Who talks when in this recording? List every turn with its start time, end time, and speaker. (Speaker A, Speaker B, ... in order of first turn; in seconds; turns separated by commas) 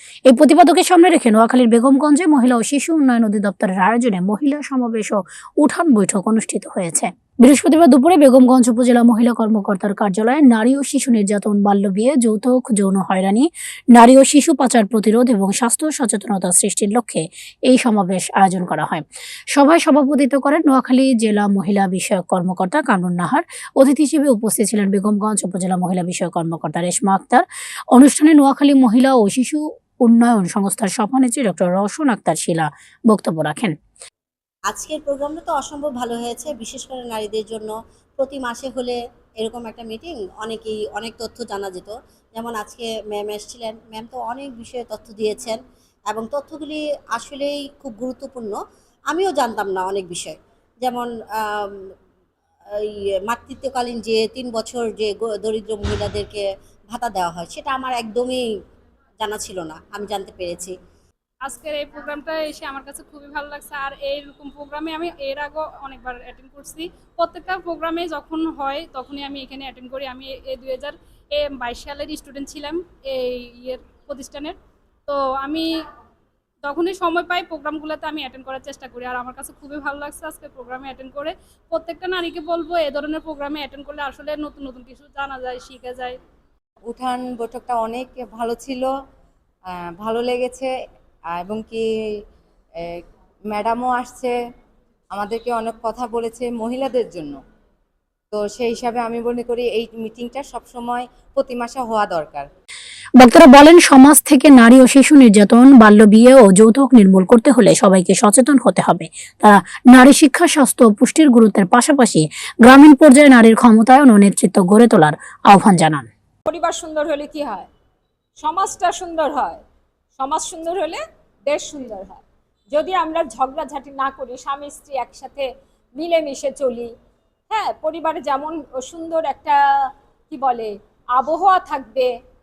Speaker A: 0.3-33.8, Speaker B: 34.7-48.6, Speaker B: 49.1-51.9, Speaker B: 52.7-58.4, Speaker B: 59.2-60.7, Speaker C: 61.4-75.7, Speaker C: 76.6-86.2, Speaker D: 86.8-88.9, Speaker D: 89.7-90.7, Speaker D: 91.3-91.8, Speaker D: 92.8-94.3, Speaker D: 95.1-97.4, Speaker D: 98.3-102.5, Speaker A: 103.2-116.1, Speaker E: 116.5-117.7, Speaker E: 118.4-119.6, Speaker E: 120.2-126.9, Speaker E: 127.5-132.1